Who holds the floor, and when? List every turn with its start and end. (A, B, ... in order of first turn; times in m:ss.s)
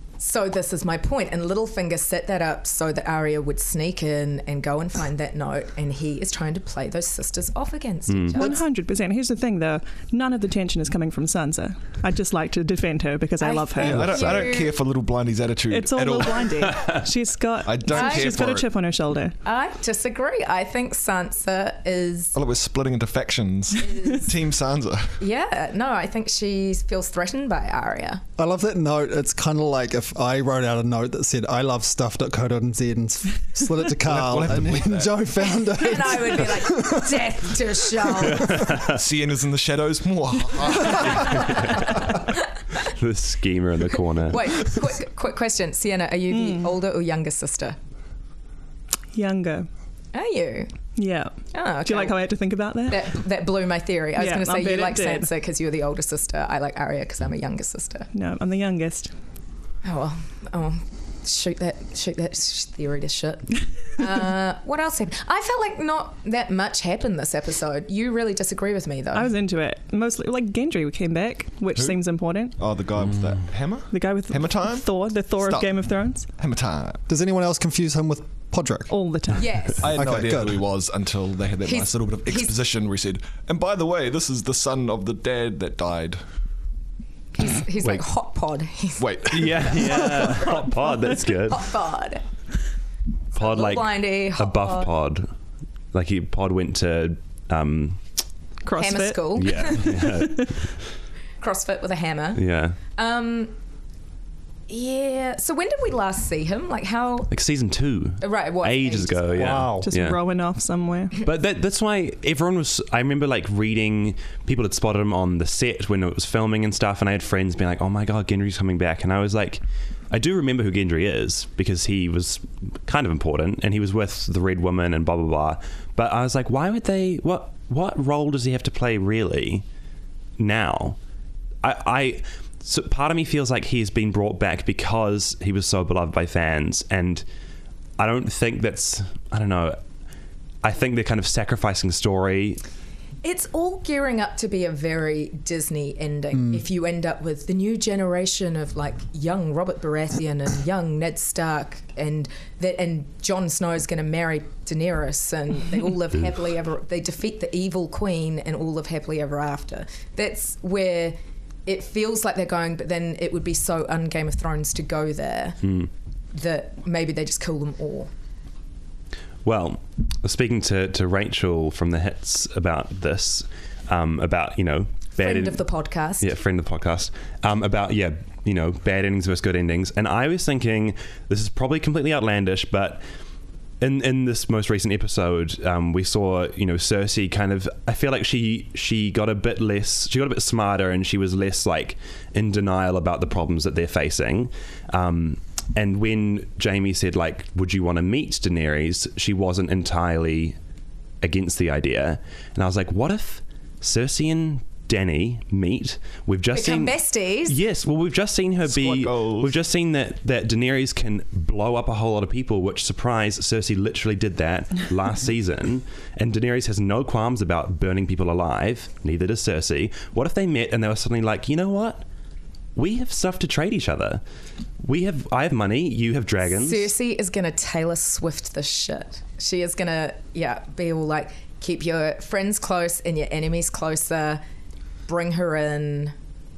0:00.2-0:08.6 A
0:08.1-0:08.4 B
0:08.4-0:14.4 C
0:13.4-0:14.7 A
0:13.8-0:16.8 D
0:15.7-0:19.4 C
0:16.7-0:17.0 B
0:17.7-0:18.7 D
0:17.9-0:18.4 A
0:19.4-0:22.4 A
0:22.4-0:25.2 D
0:23.8-0:24.3 A
0:25.2-0:28.2 A
0:28.4-0:37.4 E
0:34.0-0:35.2 D
0:35.4-0:38.6 A
0:38.3-0:39.0 B
0:38.6-0:42.2 D
0:41.1-0:41.6 A
0:41.4-0:41.9 B
0:42.9-0:44.6 B
0:44.2-0:47.8 A
0:46.3-0:46.7 C
0:49.1-0:49.7 C
0:50.1-0:50.7 A
0:51.0-0:53.1 C
0:51.5-0:52.2 A
0:52.9-0:58.1 A
0:54.2-0:55.3 C
0:58.1-0:59.1 C
0:59.8-1:09.3 A
1:09.1-1:12.6 C
1:12.6-1:15.8 D
1:13.9-1:16.3 C
1:16.4-1:17.0 D
1:17.1-1:18.9 E
1:18.9-1:19.8 C
1:19.4-1:19.8 A
1:19.8-1:20.6 E
1:19.8-1:26.2 D
1:21.6-1:22.5 A
1:27.3-1:32.2 A
1:29.0-1:30.5 D
1:29.3-1:31.7 B
1:33.3-1:34.9 A
1:33.4-1:35.3 B
1:35.9-1:38.0 B
1:38.6-1:40.5 C
1:38.8-1:40.1 A
1:39.4-1:40.8 B
1:41.4-1:43.5 A
1:42.4-1:42.8 B
1:44.7-1:47.3 A
1:47.3-1:50.2 B
1:48.2-1:49.6 A
1:49.3-1:49.9 E
1:49.8-1:51.2 C
1:51.2-2:09.6 B
2:10.4-2:11.0 B
2:11.6-2:17.2 B
2:18.0-2:19.8 B
2:20.6-2:22.6 B
2:23.2-2:45.6 A
2:45.6-2:45.9 B
2:46.3-2:48.1 A
2:49.4-2:55.6 B
2:55.2-2:56.3 A
2:56.2-3:03.0 B
3:03.8-3:20.6 B
3:21.2-3:42.1 B
3:26.5-3:27.6 A
3:28.7-3:29.6 D
3:42.8-3:44.2 B
3:44.8-3:46.9 B
3:46.5-3:54.4 A
3:55.1-3:56.2 A